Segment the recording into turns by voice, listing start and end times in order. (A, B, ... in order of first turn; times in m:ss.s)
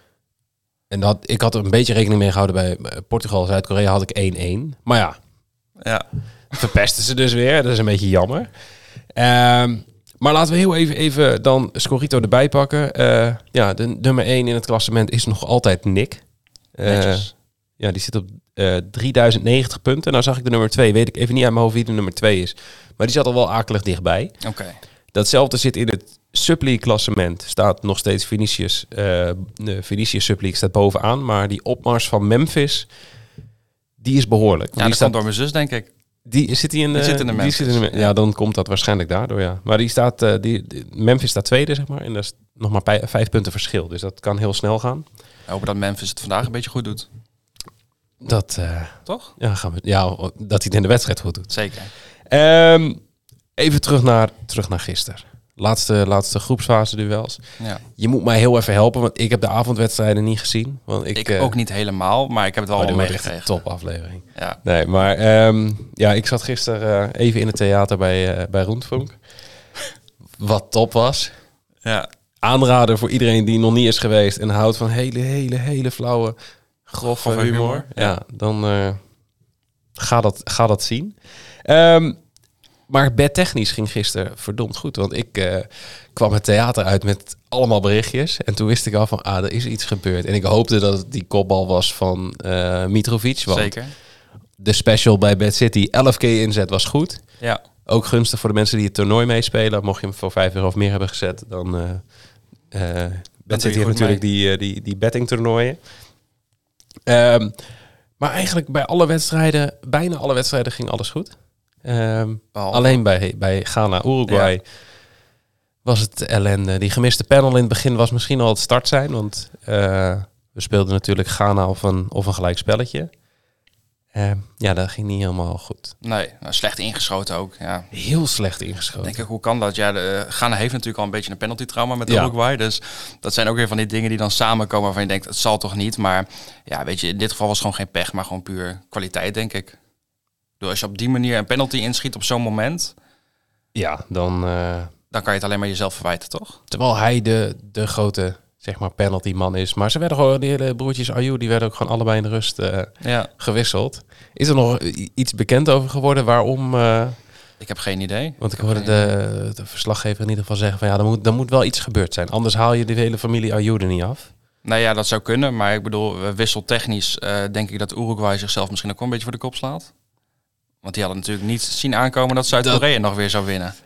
0:00.9-0:05.2 A
0:06.5-0:08.5 A
0:09.1-0:16.2 A
0:16.7-0:24.3 A
0:16.8-0:17.3 B
0:24.4-0:24.8 B
0:25.1-0:32.9 A
0:34.0-0:35.2 A
0:34.8-0:35.9 B
0:36.2-0:45.0 A
0:36.9-0:38.1 B
0:45.5-0:47.1 B
0:48.2-0:51.5 A
0:51.5-0:51.9 B
0:52.3-0:53.0 A
0:53.6-0:57.4 A
0:58.0-1:01.5 A
1:01.1-1:03.5 B
1:02.8-1:09.2 A
1:10.4-1:11.3 A
1:12.4-1:16.4 A
1:16.9-1:19.0 A
1:17.2-1:18.1 B
1:20.0-1:22.2 A
1:22.9-1:33.8 A
1:33.5-1:33.9 B
1:34.6-1:37.2 A
1:37.8-1:42.0 A
1:42.7-1:45.8 A
1:43.5-1:44.2 B
1:47.1-1:47.5 A
1:48.2-1:51.3 A
1:51.8-1:54.6 A
1:52.5-1:53.0 B
1:55.8-2:03.1 A
2:04.1-2:05.9 A
2:06.0-2:07.9 B
2:07.9-2:09.2 A
2:09.0-2:19.8 B
2:12.0-2:12.3 A
2:20.6-2:22.9 B
2:23.7-2:24.9 A
2:25.1-2:26.6 B
2:26.7-2:37.2 A
2:33.0-2:33.3 B
2:37.6-2:39.1 B
2:38.4-2:44.3 A
2:44.6-2:49.9 B
2:50.8-2:53.7 B
2:52.5-2:52.8 A